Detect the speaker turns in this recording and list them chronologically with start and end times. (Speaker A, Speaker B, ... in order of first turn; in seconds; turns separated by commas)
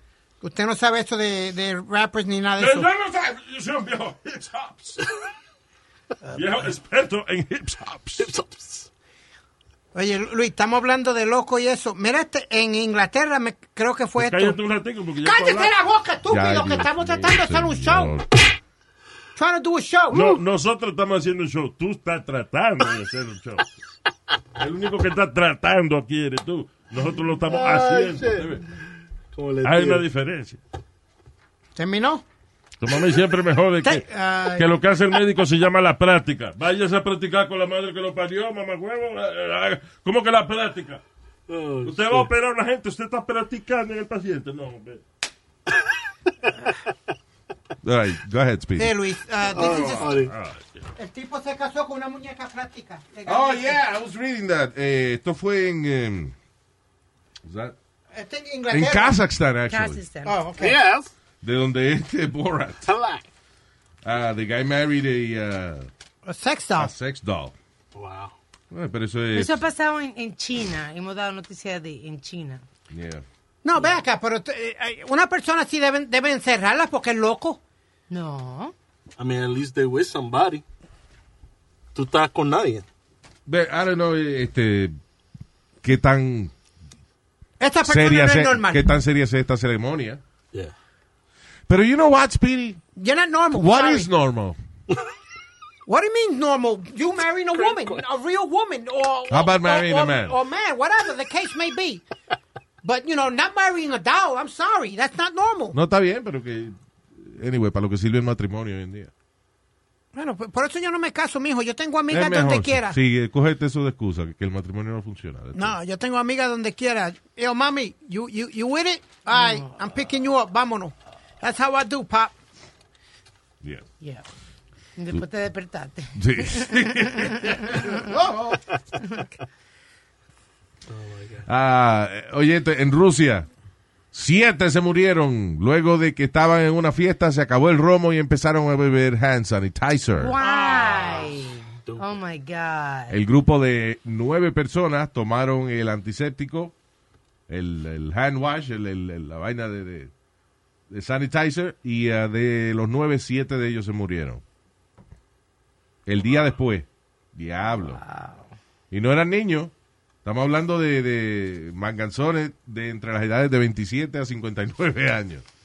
Speaker A: 0.4-2.9, Speaker B: 2.6-5.0, Speaker B: 6.3-8.3, Speaker C: 8.2-8.9, Speaker A: 9.9-14.6, Speaker B: 14.2-15.8, Speaker A: 15.2-18.2, Speaker D: 16.3-18.3, Speaker A: 19.4-20.4, Speaker B: 20.1-23.6, Speaker B: 24.6-28.7, Speaker C: 27.4-28.6, Speaker C: 29.3-30.1, Speaker B: 29.6-30.6, Speaker A: 31.8-32.2, Speaker B: 32.8-41.0, Speaker A: 33.8-34.7, Speaker C: 41.5-42.3, Speaker B: 41.8-45.0, Speaker D: 47.8-48.9, Speaker A: 48.8-50.2, Speaker C: 49.5-50.3, Speaker B: 49.6-50.9, Speaker A: 51.0-53.8, Speaker D: 53.3-56.3, Speaker D: 57.4-57.8, Speaker A: 58.1-59.2, Speaker D: 58.7-60.0, Speaker E: 59.7-60.4, Speaker A: 60.3-60.8, Speaker C: 60.5-61.1, Speaker D: 61.4-62.9, Speaker C: 62.8-63.3, Speaker D: 64.0-65.9, Speaker A: 66.3-66.9, Speaker D: 66.8-67.5, Speaker C: 68.0-68.3, Speaker D: 68.7-69.6, Speaker E: 69.3-72.6, Speaker D: 72.9-73.2, Speaker A: 73.6-77.6, Speaker E: 78.1-78.7, Speaker C: 79.2-80.6, Speaker C: 81.9-82.9, Speaker D: 83.5-85.0, Speaker D: 85.8-86.5, Speaker A: 87.6-88.8, Speaker D: 87.8-90.2, Speaker D: 91.7-92.8, Speaker A: 93.0-94.1, Speaker D: 93.5-94.6, Speaker A: 95.9-102.0, Speaker C: 97.5-98.0, Speaker D: 99.3-100.4, Speaker A: 102.8-105.8, Speaker D: 105.7-109.1, Speaker A: 110.1-113.0, Speaker D: 112.1-115.8, Speaker A: 115.5-122.3, Speaker E: 119.3-119.7, Speaker E: 124.0-124.3, Speaker E: 125.0-127.9, Speaker D: 126.2-128.6, Speaker C: 130.9-131.5, Speaker D: 131.5-133.5, Speaker D: 134.1-140.3, Speaker E: 140.2-143.2, Speaker C: 140.5-142.2, Speaker A: 140.6-140.9, Speaker D: 143.1-146.7, Speaker D: 147.5-150.1, Speaker D: 150.9-154.4, Speaker D: 156.1-158.0, Speaker E: 157.8-158.5, Speaker D: 158.9-159.7, Speaker D: 160.2-165.4